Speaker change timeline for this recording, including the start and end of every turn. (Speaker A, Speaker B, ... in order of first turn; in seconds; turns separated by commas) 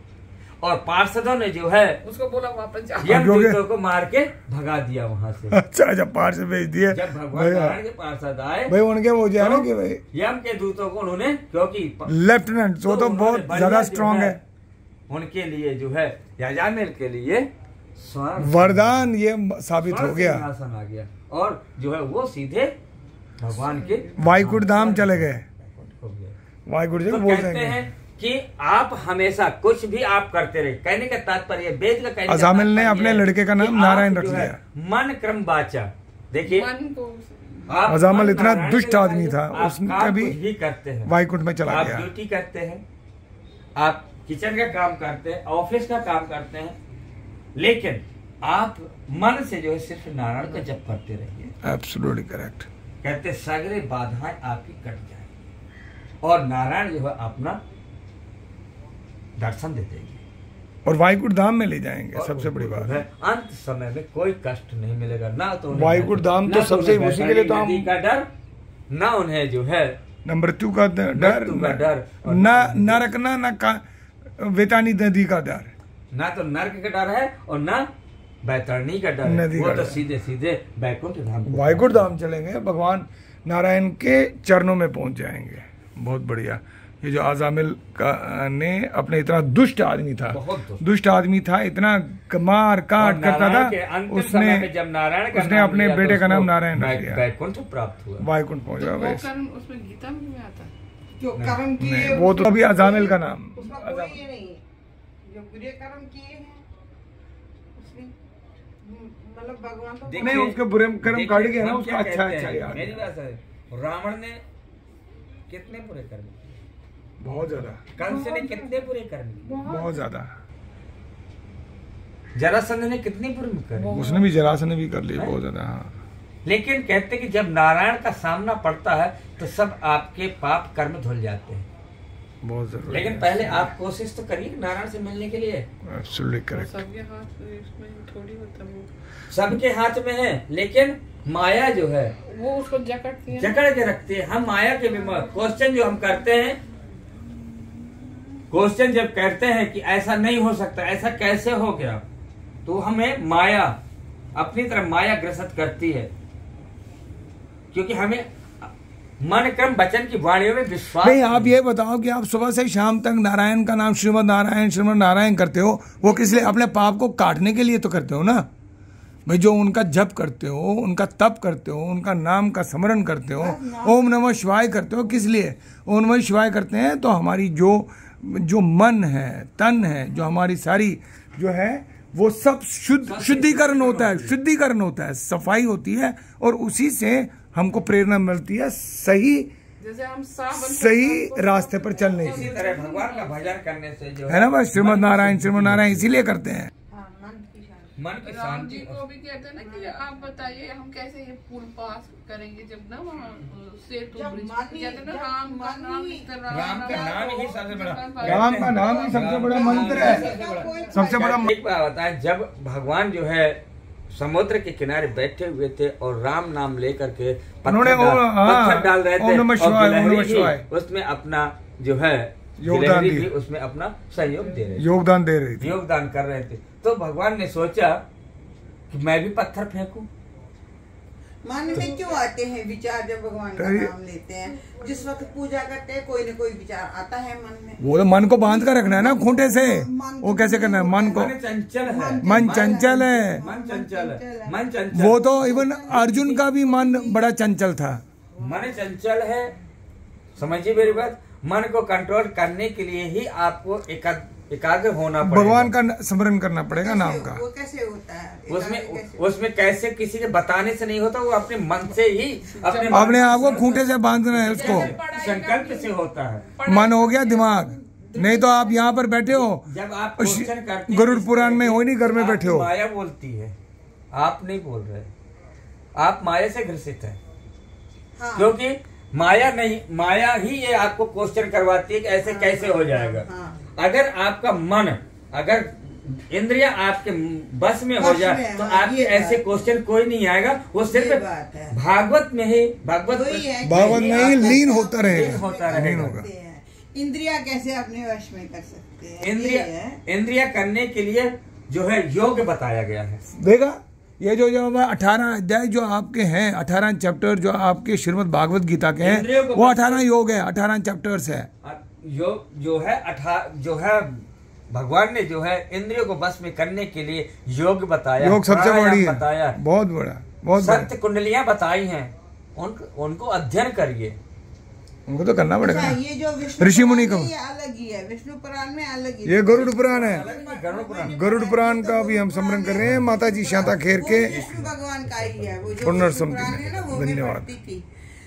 Speaker A: 0.6-2.0, Speaker B: 2.0-3.2, Speaker A: 3.0-5.6, Speaker C: 3.0-3.6, Speaker C: 5.5-7.8, Speaker A: 6.9-8.7, Speaker C: 8.7-10.0, Speaker A: 9.4-12.1, Speaker C: 12.1-14.4, Speaker A: 12.8-14.4, Speaker A: 15.1-19.1, Speaker C: 18.4-20.4, Speaker A: 19.8-22.7, Speaker A: 23.4-26.3, Speaker B: 23.7-24.1, Speaker C: 24.2-25.4, Speaker C: 26.7-27.8, Speaker A: 27.1-36.7, Speaker C: 32.3-34.6, Speaker B: 36.5-37.7, Speaker A: 37.7-41.1, Speaker C: 37.9-40.4, Speaker C: 41.0-42.1, Speaker A: 41.7-42.8, Speaker A: 43.8-46.8, Speaker A: 47.5-51.5, Speaker C: 51.6-52.7, Speaker A: 53.0-55.3, Speaker A: 56.2-57.6, Speaker A: 59.4-60.2, Speaker C: 60.8-63.0, Speaker A: 62.1-68.2, Speaker C: 65.7-67.9, Speaker A: 68.9-70.0, Speaker C: 70.2-73.8, Speaker A: 71.1-73.1, Speaker C: 74.4-75.7, Speaker A: 76.1-77.9, Speaker A: 78.4-82.1, Speaker C: 79.2-80.0, Speaker C: 81.5-94.7, Speaker A: 90.3-90.8, Speaker A: 93.0-98.2, Speaker C: 95.3-97.2, Speaker C: 98.2-99.2, Speaker B: 98.8-100.7, Speaker D: 101.2-104.6, Speaker A: 101.3-101.6, Speaker C: 101.8-104.2, Speaker D: 105.2-106.6, Speaker D: 107.8-108.1, Speaker D: 108.8-110.5, Speaker A: 110.1-114.4, Speaker C: 110.2-113.1, Speaker A: 115.5-116.4, Speaker C: 117.2-117.8, Speaker A: 118.0-119.6, Speaker D: 118.1-118.6, Speaker B: 119.4-120.1, Speaker C: 119.6-120.3, Speaker A: 122.3-124.0, Speaker B: 123.8-124.3, Speaker C: 123.9-125.9, Speaker A: 126.4-131.7, Speaker C: 132.4-133.7, Speaker A: 132.9-135.7, Speaker C: 135.8-136.7, Speaker B: 136.5-138.9, Speaker A: 139.3-142.2, Speaker B: 142.2-143.6, Speaker A: 143.3-146.6, Speaker A: 148.5-152.1, Speaker A: 152.7-153.8, Speaker A: 154.3-156.1, Speaker A: 157.7-161.6, Speaker C: 161.0-168.5, Speaker D: 166.1-166.5, Speaker C: 169.2-189.5, Speaker D: 173.4-174.1, Speaker A: 183.0-184.3, Speaker B: 189.8-193.4, Speaker C: 190.5-192.5, Speaker A: 192.2-196.2, Speaker C: 194.3-196.7, Speaker D: 196.9-197.9, Speaker A: 198.0-199.0, Speaker B: 198.2-208.8, Speaker D: 199.6-200.2, Speaker D: 204.1-207.6, Speaker A: 206.5-213.6, Speaker C: 208.2-210.3, Speaker D: 208.7-211.4, Speaker C: 210.9-211.5, Speaker A: 214.1-224.8, Speaker C: 217.7-220.6, Speaker C: 222.6-223.3, Speaker C: 224.8-225.8, Speaker A: 225.6-228.0, Speaker A: 228.9-230.1, Speaker D: 231.4-244.6, Speaker B: 231.8-232.2, Speaker C: 233.6-233.9, Speaker C: 237.8-241.3, Speaker A: 241.1-242.8, Speaker C: 242.2-243.4, Speaker A: 243.4-245.2, Speaker C: 244.9-248.0, Speaker D: 245.2-247.3, Speaker A: 248.4-249.5, Speaker D: 248.4-248.8, Speaker A: 250.3-255.7, Speaker C: 255.2-257.4, Speaker D: 256.7-259.3, Speaker A: 258.5-266.5, Speaker B: 262.5-263.7, Speaker C: 262.9-264.9, Speaker B: 264.5-265.9, Speaker B: 266.5-268.9, Speaker C: 266.6-269.7, Speaker A: 269.2-273.5, Speaker C: 270.2-272.7, Speaker A: 274.1-275.1, Speaker A: 276.0-277.2, Speaker D: 278.2-278.5, Speaker A: 278.3-296.2, Speaker D: 282.2-283.6, Speaker D: 288.0-289.5, Speaker D: 290.8-291.8, Speaker D: 293.1-300.0, Speaker C: 293.6-296.3, Speaker A: 299.2-303.2, Speaker C: 303.3-311.5, Speaker A: 309.0-310.0, Speaker A: 311.6-319.6, Speaker C: 318.2-320.9, Speaker A: 320.6-324.2, Speaker C: 325.1-326.0, Speaker D: 325.6-337.9, Speaker C: 326.6-327.3, Speaker C: 329.2-330.3, Speaker A: 329.5-331.2, Speaker C: 331.1-334.5, Speaker A: 332.8-333.1, Speaker A: 334.2-336.0, Speaker C: 335.8-337.5